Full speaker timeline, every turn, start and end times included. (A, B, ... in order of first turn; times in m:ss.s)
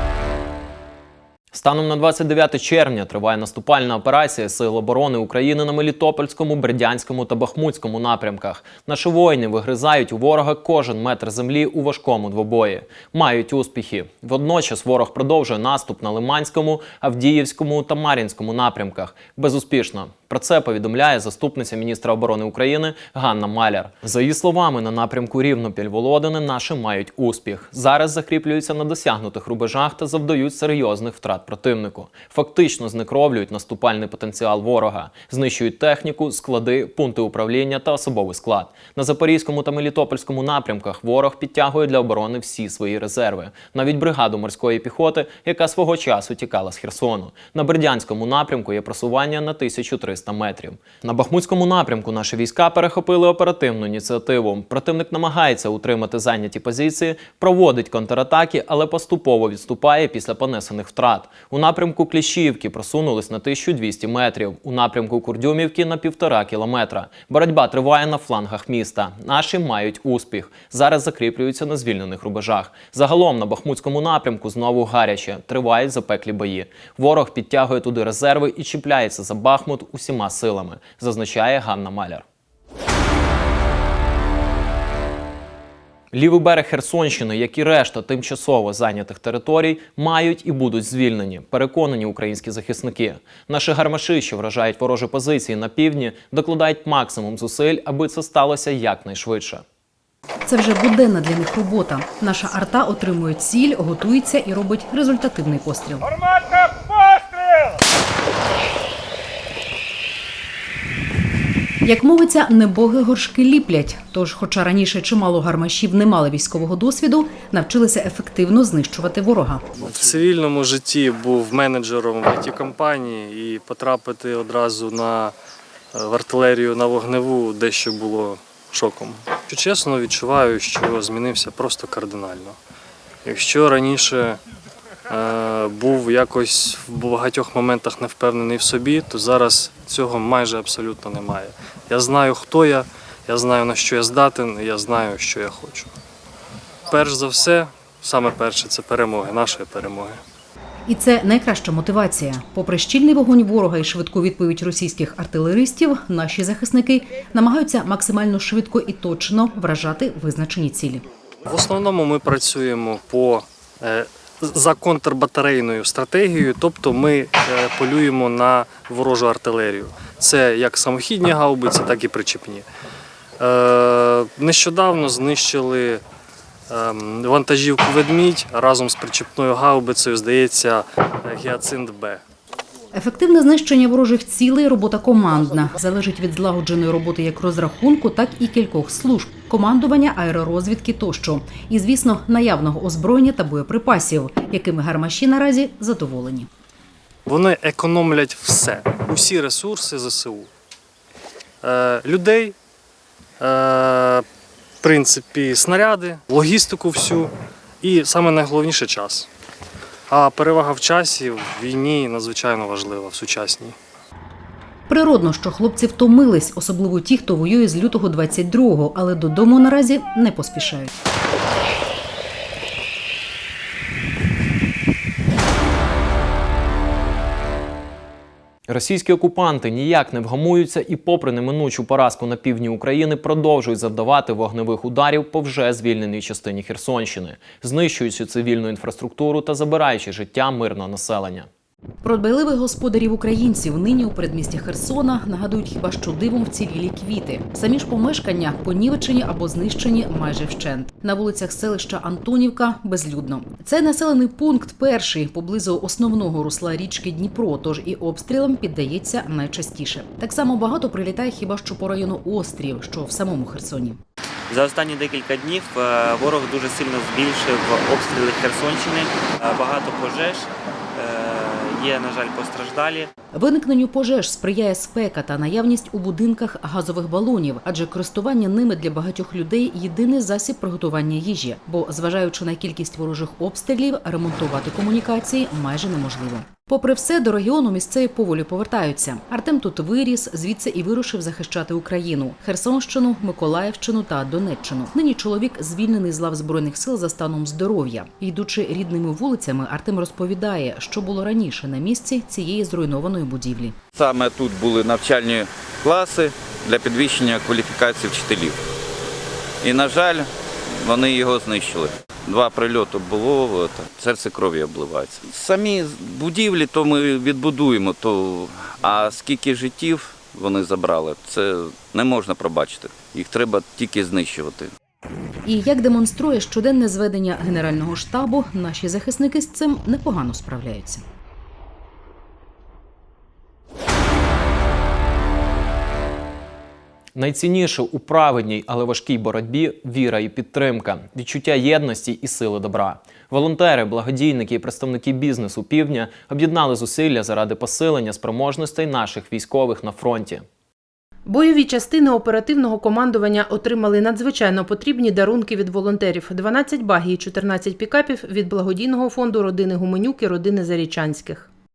0:01.5-1:22.2 A
1:26.1-1:39.6 A
1:40.4-1:46.1 B
1:51.8-1:59.7 B
1:59.8-2:05.3 C
2:05.9-2:12.6 C
2:13.2-2:14.4 C
2:15.1-2:25.9 C
2:26.9-2:30.2 C
2:30.9-2:41.0 B
2:41.4-2:52.6 C
2:53.4-2:56.0 C
2:56.7-3:02.2 C
3:02.9-3:16.5 B
3:17.3-3:20.5 C
3:21.6-3:22.5 C
3:23.4-3:24.2 C
3:24.8-3:29.3 C
3:30.1-3:33.8 C
3:34.9-3:40.9 B
3:48.7-4:01.5 A
4:02.0-4:24.0 B
4:24.5-4:33.1 D
4:33.3-5:03.8 B
5:04.0-5:08.6 E
5:09.6-5:24.7 E
5:25.4-5:31.0 B
5:37.1-5:50.4 A
5:51.2-6:01.5 F